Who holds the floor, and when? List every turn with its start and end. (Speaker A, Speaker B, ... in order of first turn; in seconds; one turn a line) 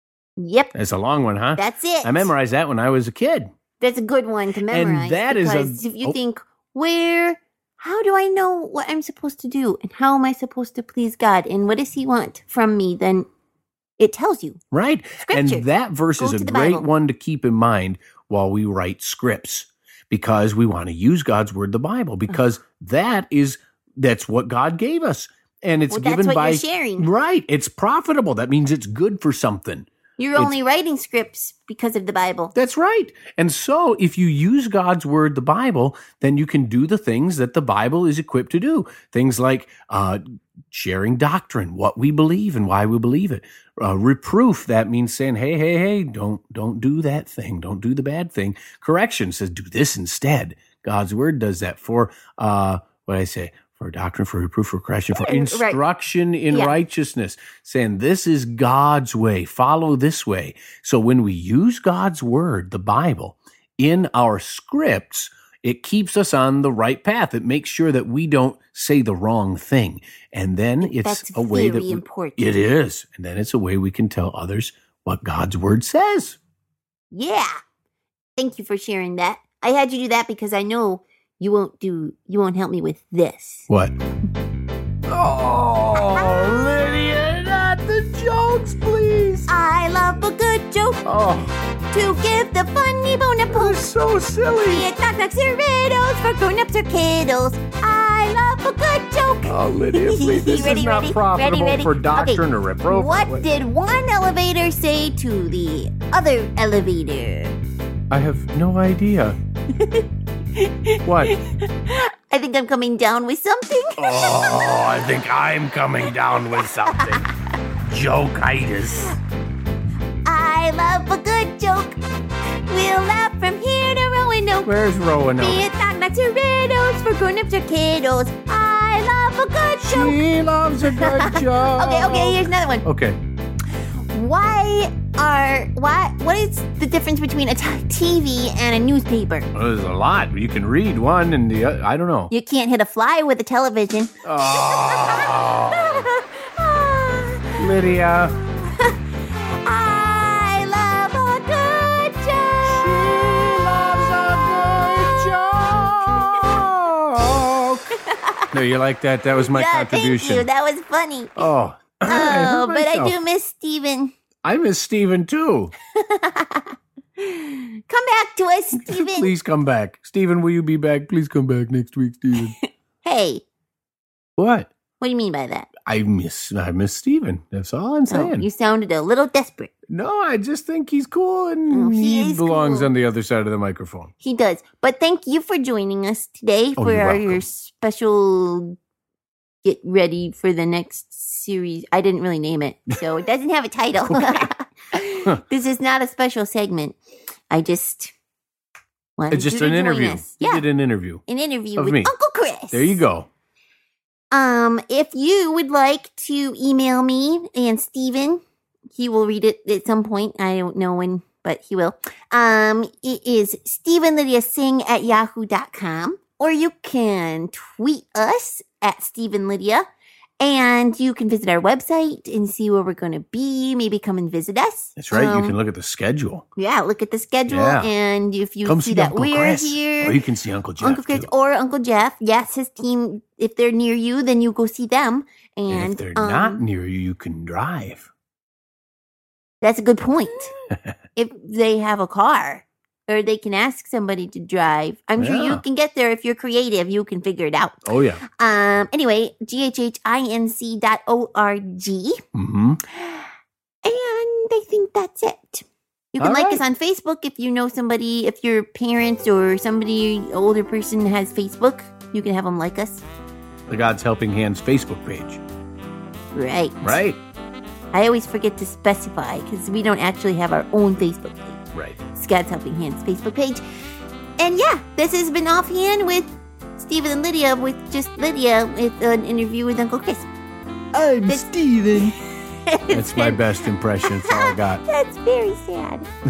Speaker A: 0.4-0.7
Speaker B: 0.7-3.5
Speaker A: 1.6-2.3
Speaker A: 3.8-13.3
Speaker B: 4.7-6.2
Speaker A: 14.0-14.6
Speaker B: 14.7-30.5
Speaker A: 15.2-15.6
Speaker A: 16.2-16.8
Speaker A: 25.9-27.1
Speaker A: 30.2-32.5
Speaker B: 32.5-76.4
Speaker A: 55.1-55.8
Speaker A: 56.5-56.8
Speaker A: 70.8-72.6
Speaker A: 77.1-77.5
Speaker A: 78.4-83.7
Speaker B: 83.7-83.9
Speaker B: 85.0-89.5
Speaker A: 85.9-86.8
Speaker A: 89.5-91.0
Speaker B: 91.0-91.5
Speaker A: 91.9-93.8
Speaker B: 93.5-94.9
Speaker A: 94.6-107.5
Speaker B: 99.5-103.5
Speaker B: 108.1-109.4
Speaker A: 109.7-114.7
Speaker B: 111.0-111.3
Speaker B: 114.0-117.3
Speaker A: 116.6-117.3
Speaker B: 117.8-119.2
Speaker A: 120.2-122.0
Speaker A: 122.7-124.7
Speaker B: 124.6-125.6
Speaker A: 125.4-130.2
Speaker B: 129.8-133.2
Speaker A: 130.8-132.8
Speaker A: 133.7-139.5
Speaker B: 139.5-142.3
Speaker A: 142.3-147.6
Speaker B: 144.2-146.0
Speaker B: 147.6-148.4
Speaker A: 148.6-153.1
Speaker B: 152.7-157.8
Speaker A: 158.0-158.4
Speaker B: 158.5-160.5
Speaker A: 159.4-161.5
Speaker B: 161.4-163.2
Speaker A: 162.1-164.1
Speaker B: 164.4-165.7
Speaker A: 165.9-169.3
Speaker B: 168.8-172.5
Speaker A: 172.6-173.4
Speaker B: 174.4-174.7
Speaker A: 175.0-175.7
Speaker B: 175.8-178.5
Speaker A: 178.1-179.7
Speaker B: 179.9-184.1
Speaker A: 181.7-182.9
Speaker A: 184.2-188.8
Speaker B: 186.8-187.4
Speaker A: 189.6-197.0
Speaker B: 194.2-194.5
Speaker A: 197.5-198.1
Speaker A: 199.2-200.6
Speaker B: 199.3-201.2
Speaker A: 201.3-203.0
Speaker B: 201.8-202.1
Speaker B: 202.7-203.3
Speaker A: 204.3-208.4
Speaker A: 208.9-219.8
Speaker A: 220.4-225.5
Speaker B: 225.0-226.4
Speaker A: 226.6-230.2
Speaker B: 227.5-227.9
Speaker B: 228.6-231.3
Speaker A: 230.8-236.6
Speaker B: 235.7-238.1
Speaker A: 239.6-240.5
Speaker A: 241.2-252.2
Speaker B: 245.2-245.6
Speaker B: 247.8-248.2
Speaker B: 252.3-252.8
Speaker A: 252.9-253.3
Speaker A: 253.8-263.0
Speaker B: 256.2-256.6
Speaker B: 263.7-265.4
Speaker A: 266.3-267.0
Speaker B: 266.8-267.2
Speaker A: 267.9-271.6
Speaker B: 271.7-272.0
Speaker A: 272.1-273.6
Speaker A: 274.4-280.3
Speaker B: 280.9-282.1
Speaker A: 281.3-283.4
Speaker B: 282.9-284.8
Speaker A: 284.0-286.1